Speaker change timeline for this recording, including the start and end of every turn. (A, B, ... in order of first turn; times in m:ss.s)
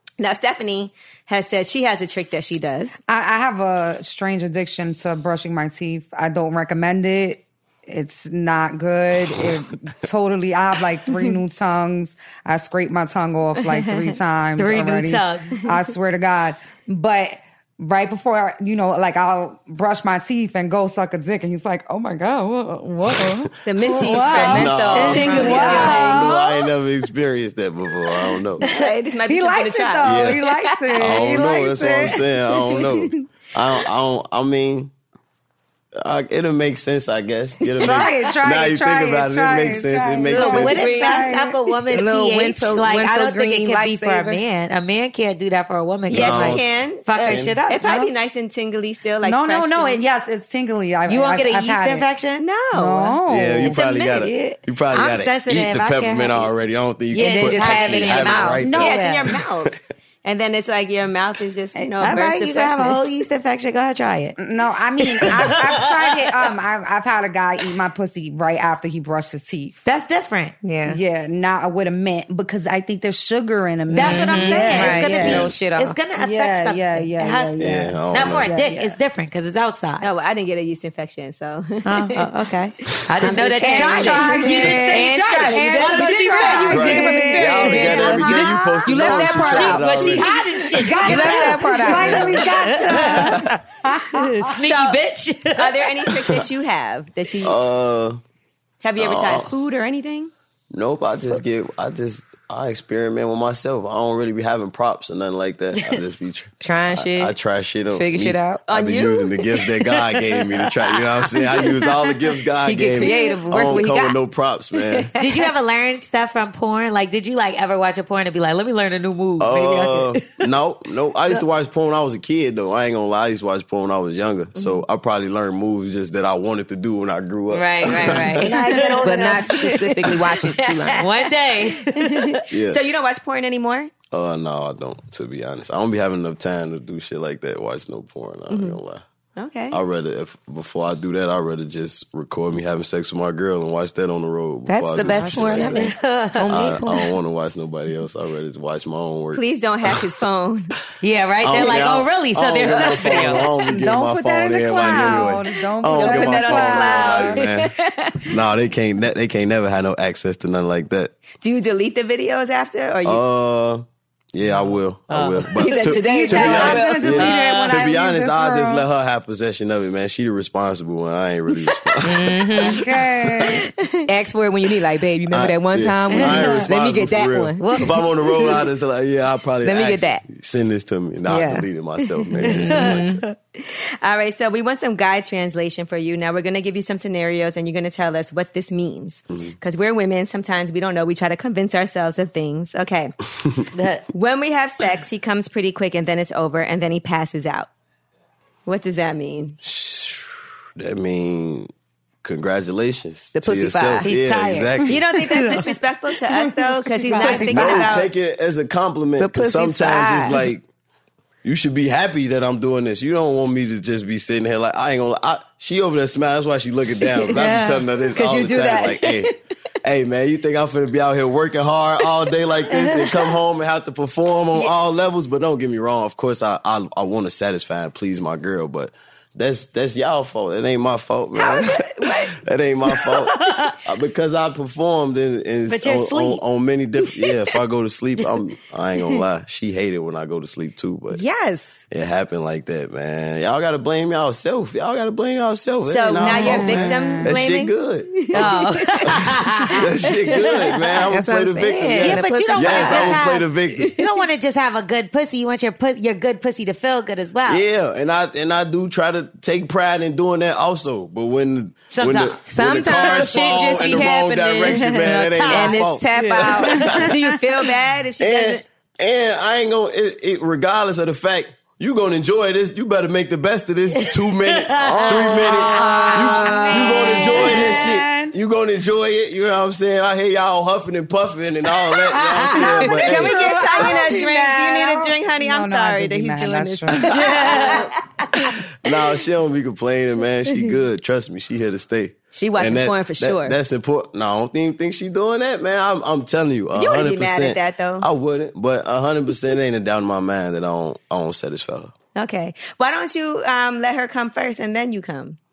0:00.2-0:03.0 A
0:03.1-0:26.6 B
0:14.6-0:15.5 C
0:23.6-0:26.3 A
0:24.1-0:25.9 D
0:24.3-0:28.6 E
0:24.9-0:26.1 C
0:28.6-0:31.2 A
0:29.3-0:32.2 B
0:30.0-0:30.4 E
0:31.0-0:34.9 E
0:32.5-0:33.2 A
0:36.0-0:40.8 E
0:37.8-0:41.6 B
0:40.3-0:48.1 C
0:40.5-0:41.5 A
0:41.9-0:44.4 D
0:46.1-0:46.6 E
0:46.1-0:50.0 A
0:47.3-0:47.6 E
0:49.2-0:52.0 B
0:51.1-0:52.4 C
0:52.4-0:53.2 A
0:52.7-0:53.8 B
0:53.3-0:59.0 E
0:53.7-0:56.5 C
0:57.1-0:59.3 C
0:57.2-0:58.7 D
0:58.6-0:59.0 B
0:58.8-1:03.0 A
1:01.8-1:02.3 B
1:02.0-1:04.4 C
1:04.4-1:09.8 B
1:05.2-1:06.2 C
1:09.8-1:10.6 C
1:10.6-1:11.0 D
1:10.9-1:15.5 B
1:13.9-1:20.1 C
1:13.9-1:16.0 D
1:15.3-1:15.5 E
1:16.2-1:19.0 B
1:17.6-1:18.5 E
1:20.0-1:22.4 A
1:21.8-1:28.0 C
1:23.2-1:25.0 A
1:23.6-1:29.7 B
1:24.7-1:30.2 D
1:26.7-1:30.3 E
1:29.3-1:36.1 C
1:30.7-1:34.5 B
1:30.9-1:32.5 D
1:34.6-1:35.0 A
1:35.5-1:37.6 A
1:37.4-1:38.2 E
1:38.8-1:40.3 A
1:39.0-1:39.5 E
1:40.7-1:55.1 E
1:46.6-1:47.4 D
1:47.9-1:48.6 D
1:48.7-1:49.4 A
1:52.6-1:54.2 D
1:53.0-1:53.3 A
1:54.9-1:55.5 A
1:55.2-2:00.4 C
1:59.4-2:08.5 E
2:04.6-2:04.8 A
2:07.5-2:09.4 C
2:08.3-2:10.3 A
2:09.0-2:11.1 D
2:10.1-2:12.4 C
2:11.8-2:13.9 A
2:12.5-2:12.8 E
2:14.1-2:19.0 E
2:18.5-2:18.8 A
2:19.4-2:19.8 A
2:19.7-2:25.9 E
2:24.7-2:27.1 D
2:25.1-2:25.8 B
2:25.4-2:26.5 C
2:26.5-2:29.4 E
2:29.3-2:30.7 A
2:31.0-2:33.5 C
2:31.4-2:41.1 E
2:32.7-2:33.5 A
2:33.7-2:37.4 B
2:35.9-2:38.3 A
2:41.4-2:43.2 A
2:43.0-2:52.8 E
2:45.1-2:45.7 C
2:45.5-2:47.2 A
2:45.8-2:48.9 B
2:46.4-2:47.8 C
2:52.0-2:52.9 D
2:52.6-2:53.7 B
2:53.5-2:54.1 A
2:54.1-2:58.0 D
2:55.3-3:03.1 E
2:56.1-2:56.6 C
2:57.6-2:58.0 C
2:59.6-3:00.2 D
3:01.3-3:01.7 D
3:02.4-3:03.4 C
3:02.4-3:03.2 D
3:03.6-3:13.2 A
3:13.7-3:14.1 C
3:14.1-3:17.7 A
3:18.7-3:19.6 A
3:19.6-3:21.7 E
3:22.2-3:25.0 E
3:23.4-3:24.1 D
3:24.0-3:25.7 C
3:24.9-3:28.1 A
3:27.1-3:28.0 D
3:27.4-3:30.6 E
3:29.2-3:30.4 D
3:31.4-4:01.2 E
3:37.3-3:37.8 C
3:38.2-3:39.2 A
3:42.7-3:43.1 C
3:51.4-3:52.4 A
3:53.0-3:53.8 C
3:55.7-3:56.4 C
4:01.1-4:01.8 A
4:01.9-4:13.9 E
4:05.8-4:11.0 A
4:06.2-4:07.4 B
4:08.3-4:09.9 C
4:11.1-4:13.2 D
4:12.0-4:17.6 C
4:13.7-4:14.1 A
4:17.5-4:27.0 E
4:21.9-4:22.4 C
4:22.5-4:27.0 D
4:22.9-4:24.0 C
4:24.9-4:27.3 C
4:26.8-4:28.6 A
4:28.2-4:43.9 E
4:34.5-4:37.8 C
4:35.3-4:36.1 A
4:35.4-4:38.4 B
4:42.1-4:42.8 C
4:42.6-4:48.6 A
4:42.6-4:47.6 B
4:47.1-4:47.9 C
4:48.8-5:01.9 E
4:52.3-4:53.6 A
4:56.7-4:58.1 A
5:02.2-5:05.4 A